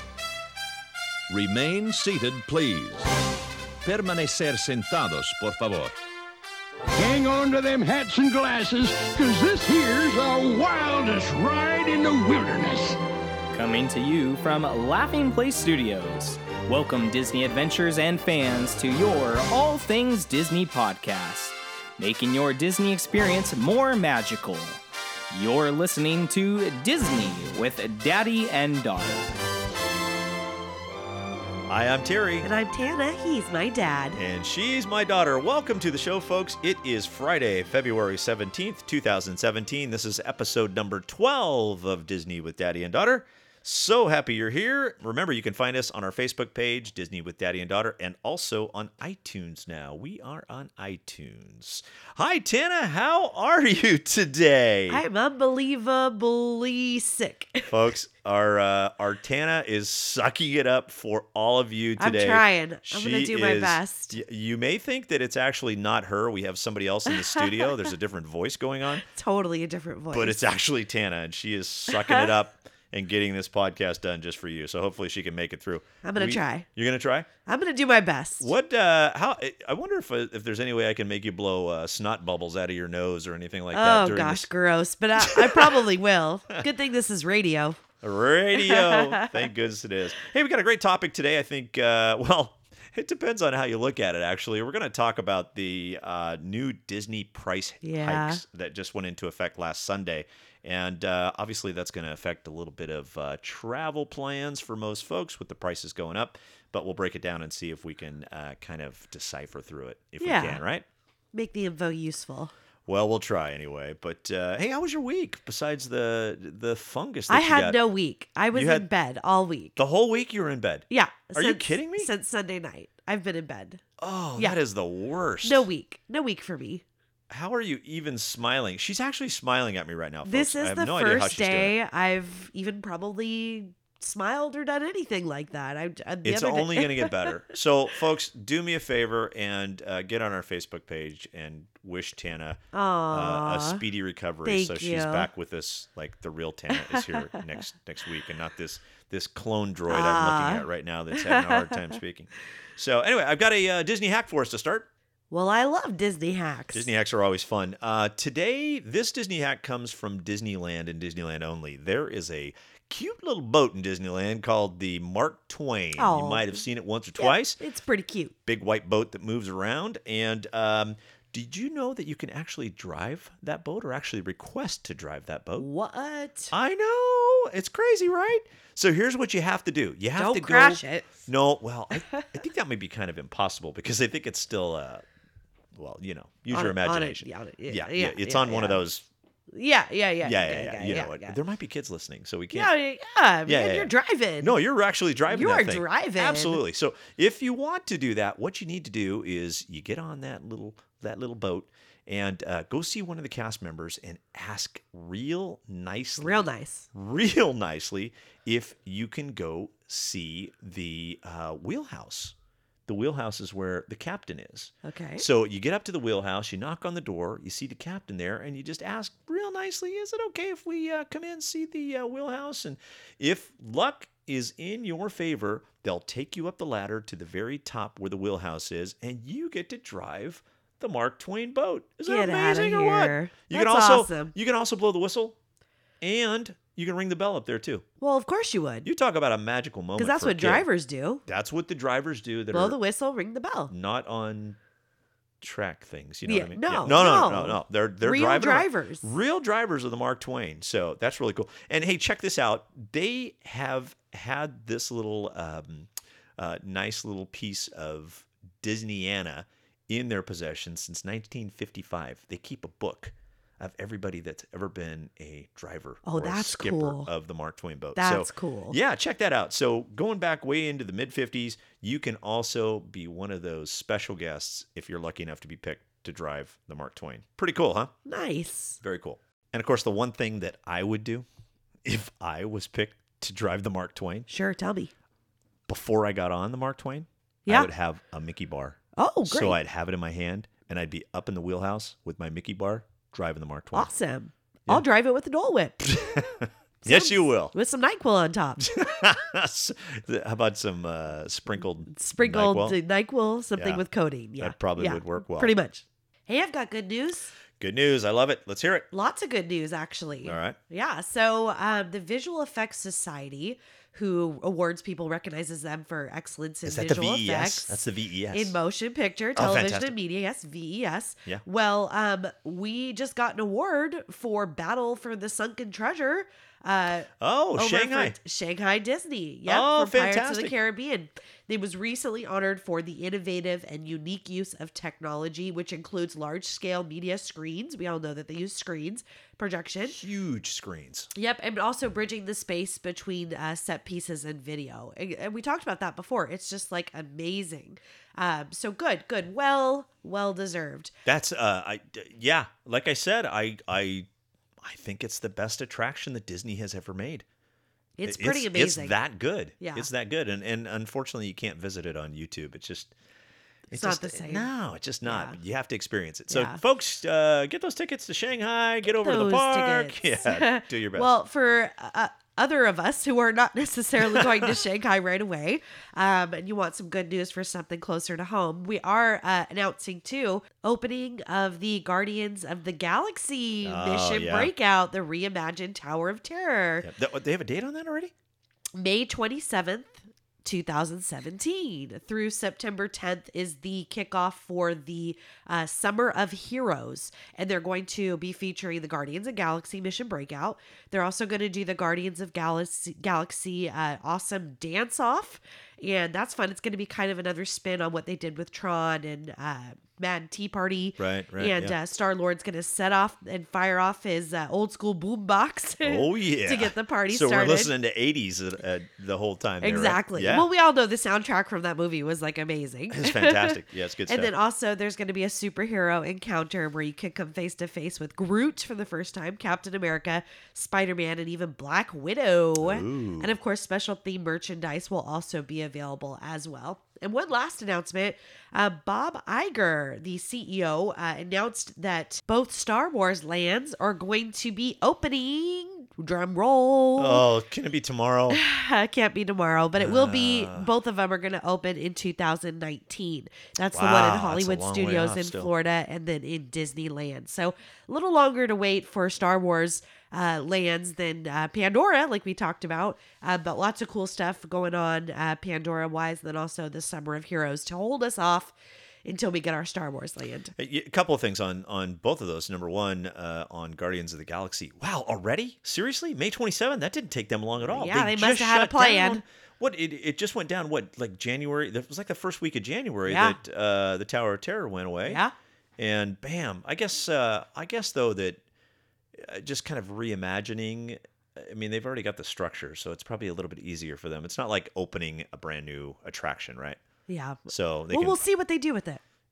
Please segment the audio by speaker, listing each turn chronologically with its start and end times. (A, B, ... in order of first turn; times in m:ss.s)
0:01.3-0:06.0 A
0:06.9-0:13.0 B
0:13.5-0:29.3 C
0:31.7-0:32.5 D
0:32.4-0:34.2 E
0:34.1-0:55.0 D
0:54.9-0:57.7 E
0:57.7-1:09.0 D
1:02.0-1:04.2 E
1:07.1-1:07.7 E
1:09.0-1:10.4 E
1:10.1-1:17.3 D
1:11.9-1:12.2 E
1:16.0-1:16.6 E
1:17.4-1:18.5 E
1:18.4-1:24.5 D
1:23.7-1:27.8 E
1:25.2-1:25.8 D
1:28.0-1:50.8 D
1:28.6-1:29.3 E
1:37.8-1:38.4 E
1:50.2-1:50.6 E
1:51.3-1:52.5 E
1:52.9-1:57.8 D
1:57.3-1:59.8 E
1:58.5-1:58.8 D
1:59.8-2:02.1 D
2:00.9-2:03.8 E
2:04.0-2:05.7 D
2:05.4-2:06.8 E
2:07.3-2:11.7 D
2:10.2-2:17.4 E
2:16.2-2:34.9 D
2:22.7-2:23.8 E
2:24.4-2:25.3 E
2:26.7-2:27.4 E
2:29.9-2:31.9 E
2:35.3-2:36.9 E
2:36.7-2:47.6 D
2:45.9-2:46.6 E
2:47.2-2:48.3 E
2:48.4-2:55.7 D
2:55.6-2:56.5 E
2:56.5-3:05.0 D
3:00.2-3:01.2 E
3:05.7-3:09.0 D
3:06.5-3:08.8 E
3:09.5-3:11.4 E
3:10.2-3:12.7 D
3:12.5-3:14.6 E
3:13.4-3:32.3 D
3:15.3-3:16.6 E
3:26.2-3:26.9 E
3:32.9-3:55.4 D
3:34.8-3:35.2 E
3:52.0-3:54.3 E
3:56.0-3:57.8 D
3:58.0-3:58.9 E
3:58.8-4:00.6 D
4:00.0-4:01.2 E
4:01.3-4:02.8 D
4:02.5-4:03.7 E
4:03.7-4:04.6 D
4:05.4-4:37.9 D
4:06.2-4:09.0 E
4:26.0-4:27.1 E
4:28.0-4:28.8 E
4:38.0-4:38.8 E
4:38.8-4:41.2 D
4:41.8-4:44.3 D
4:44.3-4:44.9 E
4:45.7-4:53.9 D
4:49.0-4:49.6 E
4:53.7-4:55.9 E
4:55.8-4:57.5 D
4:56.8-4:58.7 E
4:58.6-5:02.8 D
5:01.9-5:07.3 E
5:03.6-5:03.8 D
5:04.4-5:05.5 D
5:07.6-5:08.9 D
5:08.9-5:17.8 E
5:10.2-5:10.6 D
5:16.6-5:18.5 D
5:18.3-5:40.0 E
5:19.4-5:19.9 D
5:27.2-5:28.2 D
5:29.5-5:30.5 D
5:39.9-5:41.1 D
5:41.1-5:50.9 E
5:51.0-5:54.1 D
5:54.6-5:57.2 D
5:58.0-5:59.0 E
5:58.0-6:02.9 D
5:59.6-5:59.9 E
6:03.7-6:11.1 D
6:03.7-6:04.5 E
6:05.0-6:05.4 E
6:06.3-6:06.6 E
6:08.8-6:26.9 E
6:14.0-6:14.6 D
6:23.6-6:24.5 D
6:26.8-6:28.1 D
6:28.7-6:57.7 E
6:51.0-6:51.7 D
6:55.8-7:00.5 D
6:59.6-7:27.2 E
7:02.9-7:04.3 D
7:12.6-7:13.3 D
7:27.0-7:28.4 D
7:28.3-7:50.5 E
7:29.8-7:30.7 D
7:33.7-7:35.5 D
7:50.6-8:05.2 D
7:57.6-7:59.2 E
8:03.0-8:03.4 E
8:05.0-8:05.3 E
8:05.8-8:08.4 D
8:09.1-8:16.8 D
8:17.1-8:19.0 E
8:17.5-8:18.2 D